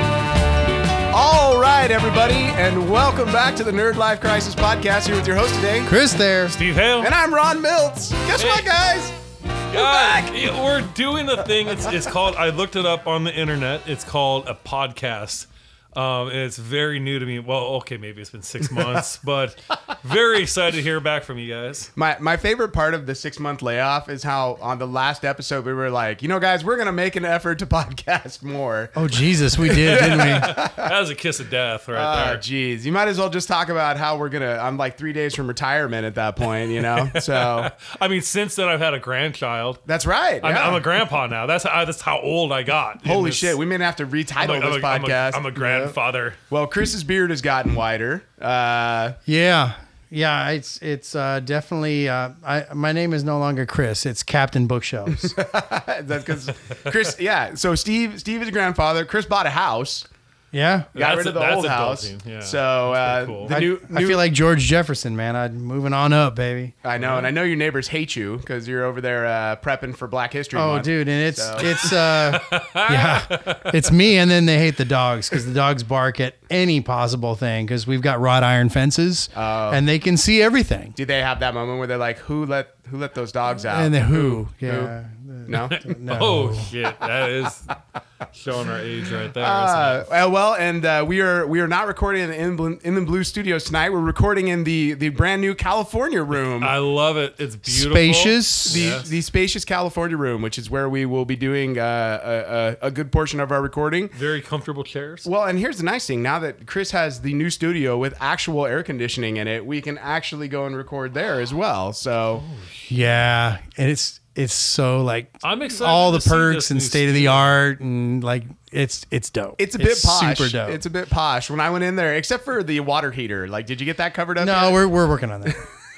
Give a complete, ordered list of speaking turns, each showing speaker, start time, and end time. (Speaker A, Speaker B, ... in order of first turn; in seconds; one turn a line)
Speaker A: 1.1-5.9
Speaker B: 5.9-6.6
Speaker C: 6.5-7.1
Speaker A: 7.0-9.2
Speaker C: 8.4-8.7
Speaker C: 9.7-21.9
Speaker A: 9.7-10.4
Speaker A: 22.0-30.9
Speaker B: 28.9-30.6
Speaker C: 29.7-32.4
Speaker A: 31.9-37.7
Speaker C: 36.8-39.8
Speaker A: 39.9-40.9
Speaker C: 40.4-43.6
Speaker A: 43.0-45.9
Speaker C: 44.4-46.4
Speaker A: 46.5-49.2
Speaker B: 49.3-55.4
Speaker A: 55.1-60.1
Speaker B: 60.5-60.9
Speaker C: 60.9-63.6
Speaker A: 61.0-64.2
Speaker B: 63.5-66.8
Speaker A: 66.8-71.9
Speaker C: 67.0-67.3
Speaker B: 70.5-81.0
Speaker C: 71.8-73.7
Speaker A: 79.3-79.8
Speaker A: 81.0-84.9
Speaker B: 83.7-86.7
Speaker A: 85.5-85.8
Speaker C: 85.6-87.8
Speaker C: 88.3-90.0
Speaker A: 89.4-96.8
Speaker C: 96.6-99.1
Speaker B: 97.7-98.9
Speaker A: 98.7-104.1
Speaker C: 104.1-105.3
Speaker A: 105.2-112.4
Speaker C: 112.4-113.2
Speaker B: 112.9-120.8
Speaker C: 115.4-117.5
Speaker A: 119.6-124.8
Speaker B: 124.4-125.7